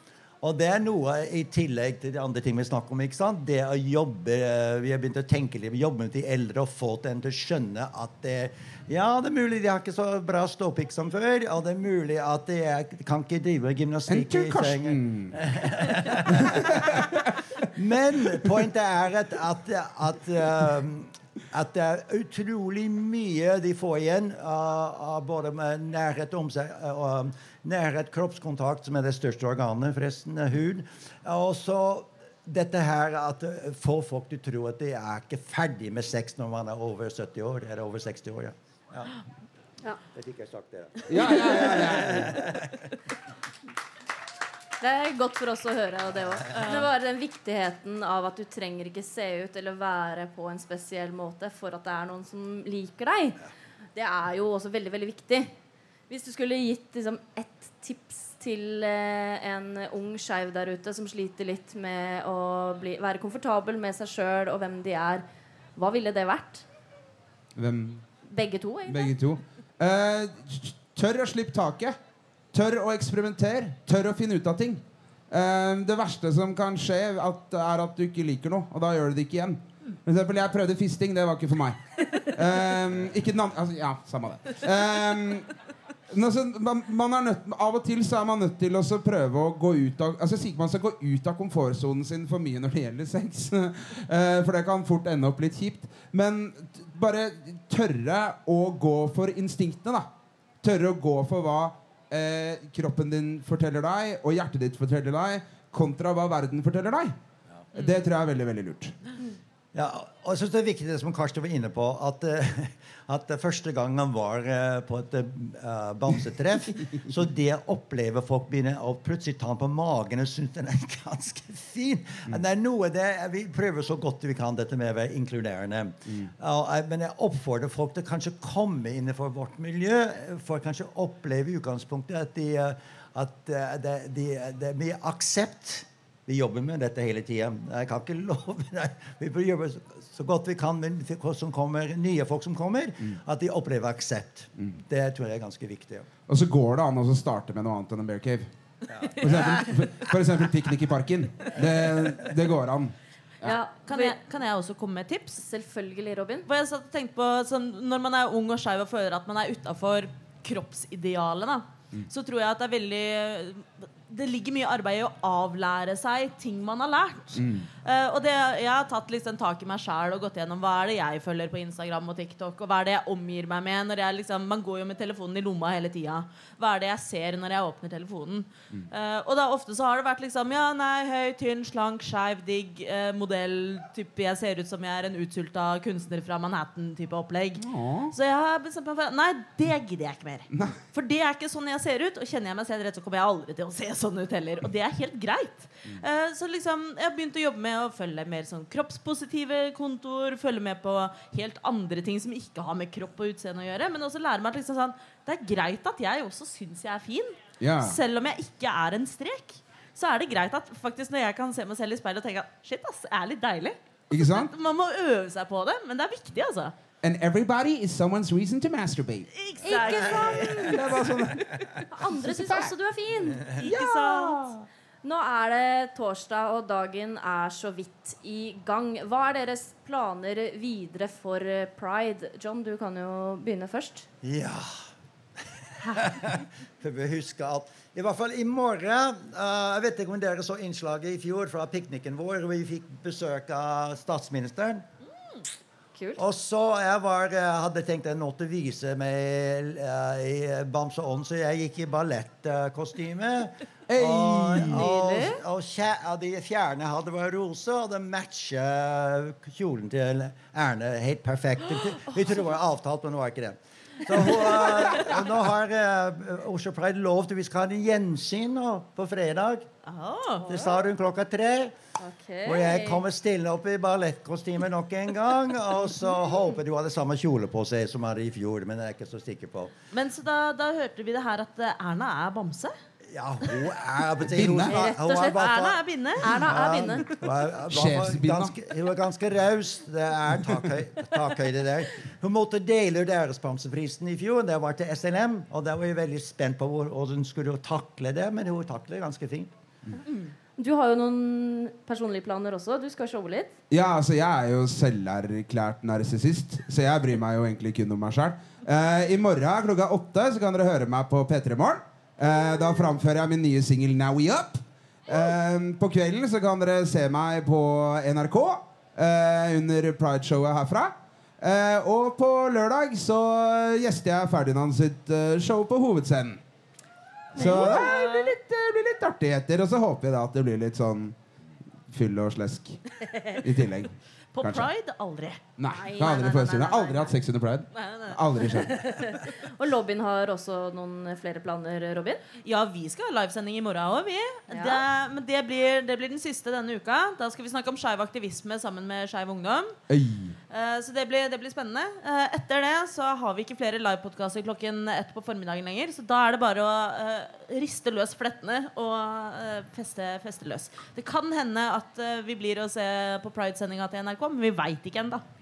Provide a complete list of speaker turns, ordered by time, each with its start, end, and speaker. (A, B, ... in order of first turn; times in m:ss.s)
0:00.4-0:39.1 A
0:14.1-0:15.4 B
0:16.1-0:17.4 B
0:40.0-0:42.9 A
0:41.1-0:42.5 B
0:44.8-0:53.4 C
0:46.6-0:46.9 D
0:54.0-0:55.5 C
0:56.1-1:05.2 C
1:05.8-1:06.6 C
1:07.6-1:08.0 B
1:08.3-1:09.1 C
1:08.9-1:12.0 B
1:12.5-1:25.5 B
1:26.1-1:40.1 B
1:40.6-1:47.2 B
1:47.7-1:49.0 B
1:49.7-2:26.1 A
2:26.3-2:28.5 B
2:28.9-2:29.6 A
2:29.2-2:33.6 B
2:33.4-2:34.2 C
2:33.8-2:35.4 D
2:35.4-2:36.5 C
2:36.5-3:36.8 D
2:47.4-2:47.7 B
3:07.6-3:08.2 B
3:27.6-3:28.0 B
3:34.1-3:34.5 B
3:37.0-3:39.3 B
3:39.3-3:41.6 D
3:39.6-3:41.0 C
3:40.4-3:42.7 B
3:41.9-3:43.5 C
3:43.6-3:44.5 D
3:43.6-3:44.7 B
3:45.0-3:54.1 C
3:54.2-4:04.8 A
4:06.0-4:06.2 C
4:06.2-4:29.7 A
4:13.9-4:15.1 B
4:14.9-4:15.4 C
4:29.8-4:30.5 D
4:30.5-4:30.7 C
4:30.5-4:31.8 A
4:32.0-4:33.0 C
4:32.4-4:39.7 A
4:39.9-4:42.7 D
4:43.1-4:59.5 A
4:44.2-4:44.8 B
4:44.7-4:45.6 C
4:45.2-4:46.3 D
4:46.2-4:47.1 C
4:47.7-4:48.5 B
5:00.6-5:03.5 C
5:03.7-5:26.4 B
5:27.3-5:31.2 B
5:27.4-5:28.2 C
5:27.4-5:28.1 D
5:31.9-5:34.7 B
5:34.3-5:35.4 D
5:35.6-5:38.8 B
5:35.6-5:37.2 C
5:37.8-5:38.5 D
5:38.6-5:42.2 C
5:42.4-5:49.8 D
5:44.5-5:44.8 C
5:49.9-5:50.4 B
5:50.5-6:05.2 D